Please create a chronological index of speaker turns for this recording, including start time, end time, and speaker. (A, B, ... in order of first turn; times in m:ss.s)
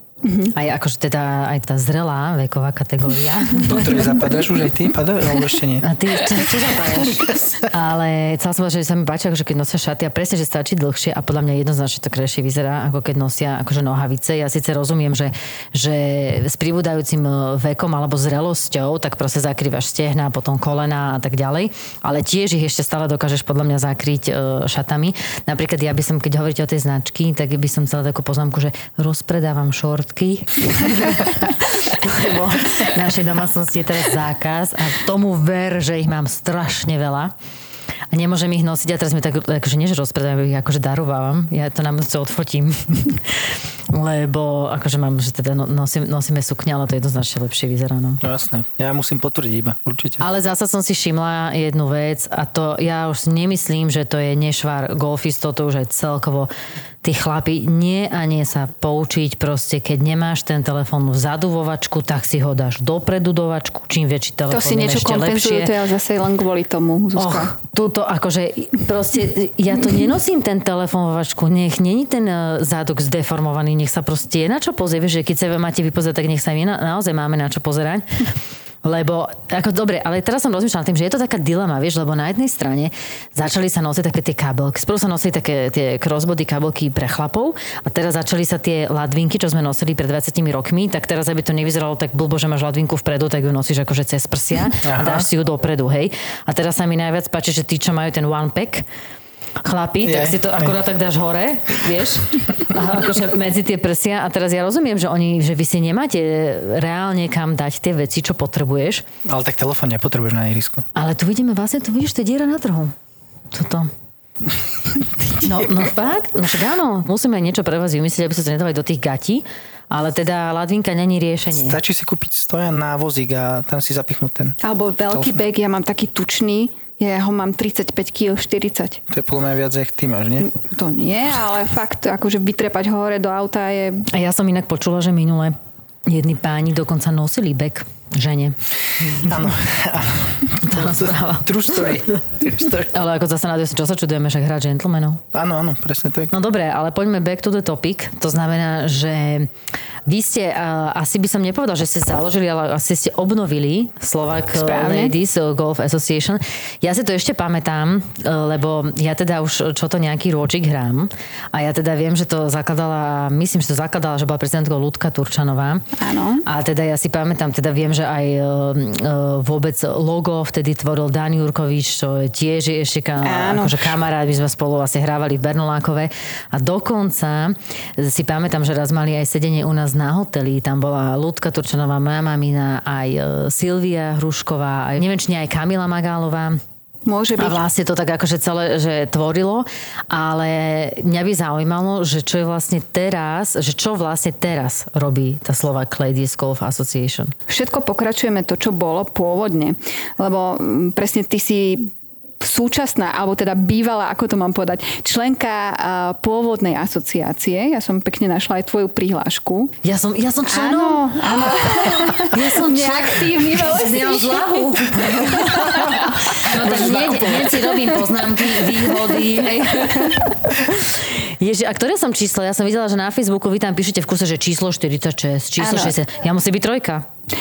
0:00.2-0:00.5 A
0:00.5-0:03.8 B
0:03.6-0:05.9 C
0:05.8-0:37.3 B
0:07.3-0:07.7 C
0:38.1-0:43.4 B
0:43.9-0:48.2 B
0:48.2-0:50.2 C
0:50.2-0:56.5 B
0:57.0-1:05.7 B
1:04.5-1:07.5 A
1:07.2-1:18.1 B
1:18.8-1:38.8 B
1:34.8-1:35.3 C
1:39.6-1:49.0 B
1:40.0-1:40.8 C
1:49.2-1:50.9 C
1:51.0-1:52.9 B
1:53.5-1:53.9 B
1:55.3-2:01.8 B
2:01.6-2:04.6 C
2:04.6-2:09.0 A
2:05.1-2:05.4 C
2:09.1-2:10.5 C
2:10.4-2:14.1 A
2:14.1-2:15.6 B
2:16.1-2:19.3 B
2:19.2-2:22.9 C
2:20.6-2:21.8 B
2:22.8-2:25.2 B
2:25.3-2:26.3 C
2:26.3-2:29.5 B
2:30.1-2:45.8 B
2:34.5-2:35.2 A
2:46.0-2:46.4 A
2:46.5-3:06.6 B
2:53.2-2:54.0 A
3:07.1-3:07.6 A
3:07.4-3:17.3 B
3:17.5-3:21.9 A
3:22.4-3:29.7 A
3:29.8-3:47.0 B
3:30.5-3:36.0 A
3:36.5-3:37.7 C
3:36.6-3:37.3 A
3:45.6-3:45.9 A